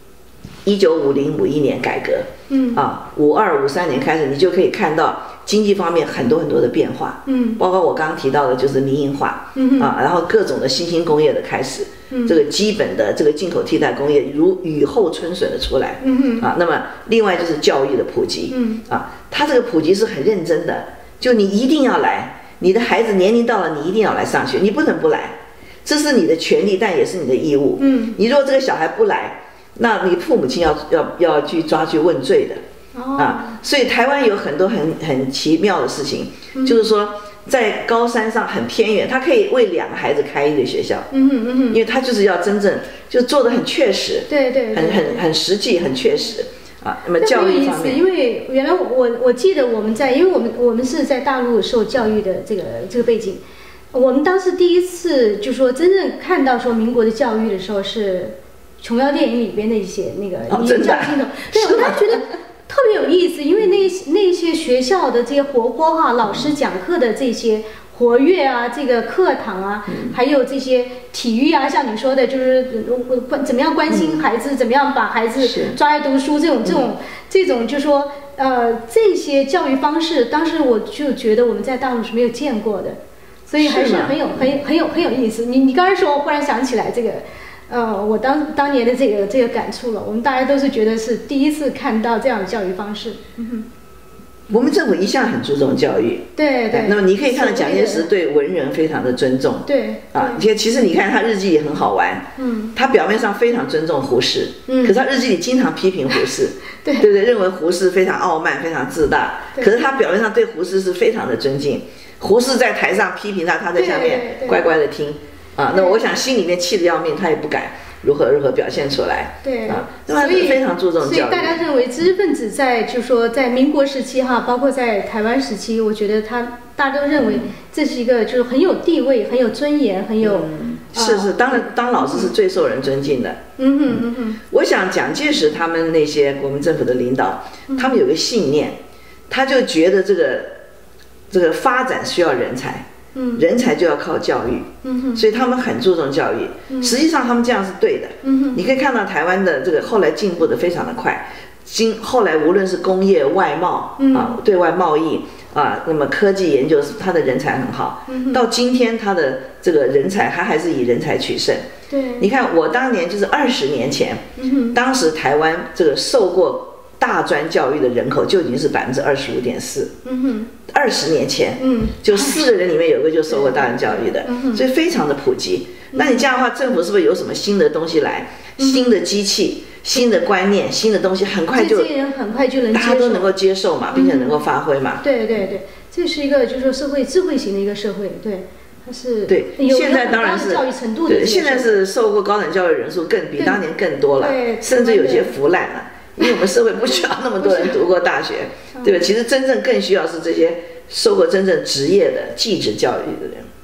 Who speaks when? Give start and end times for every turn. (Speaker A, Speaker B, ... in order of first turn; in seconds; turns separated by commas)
Speaker A: 0.6-32.6, Speaker B: 2.5-2.8, Speaker B: 7.2-7.6, Speaker B: 9.5-9.9, Speaker B: 12.1-12.3, Speaker B: 16.0-16.5, Speaker B: 18.5-18.8, Speaker B: 27.8-28.2, Speaker B: 32.9-33.6, Speaker A: 33.2-41.1, Speaker B: 36.5-36.8, Speaker B: 41.1-41.8, Speaker A: 41.7-48.0, Speaker B: 44.3-45.2, Speaker B: 47.2-53.4, Speaker B: 53.9-93.7, Speaker A: 60.5-62.2, Speaker A: 69.9-70.2, Speaker A: 73.9-74.2, Speaker A: 75.4-75.8, Speaker A: 83.6-84.4, Speaker A: 94.5-121.6, Speaker B: 96.3-98.1, Speaker B: 99.7-100.5, Speaker B: 102.4-102.7, Speaker B: 104.7-104.9, Speaker B: 109.5-109.8, Speaker B: 113.7-114.6, Speaker B: 115.7-116.0, Speaker B: 119.4-132.3, Speaker A: 130.2-133.4, Speaker B: 133.6-134.4, Speaker A: 134.5-140.5, Speaker B: 137.7-138.0, Speaker A: 141.3-161.6, Speaker B: 143.1-143.4, Speaker B: 144.8-145.2, Speaker B: 146.7-147.0, Speaker B: 148.2-148.6, Speaker B: 154.0-154.4, Speaker B: 158.1-158.4, Speaker B: 161.9-162.3, Speaker A: 162.2-169.9, Speaker B: 164.4-164.8, Speaker B: 170.0-170.5, Speaker A: 170.7-181.9, Speaker B: 171.6-172.5, Speaker B: 173.3-174.6, Speaker B: 175.9-176.3, Speaker B: 178.6-179.0, Speaker B: 181.5-183.3, Speaker A: 182.7-185.0, Speaker B: 183.9-184.4, Speaker B: 185.0-191.8, Speaker A: 189.3-203.5, Speaker B: 194.2-195.3, Speaker B: 197.4-197.8, Speaker B: 198.8-199.1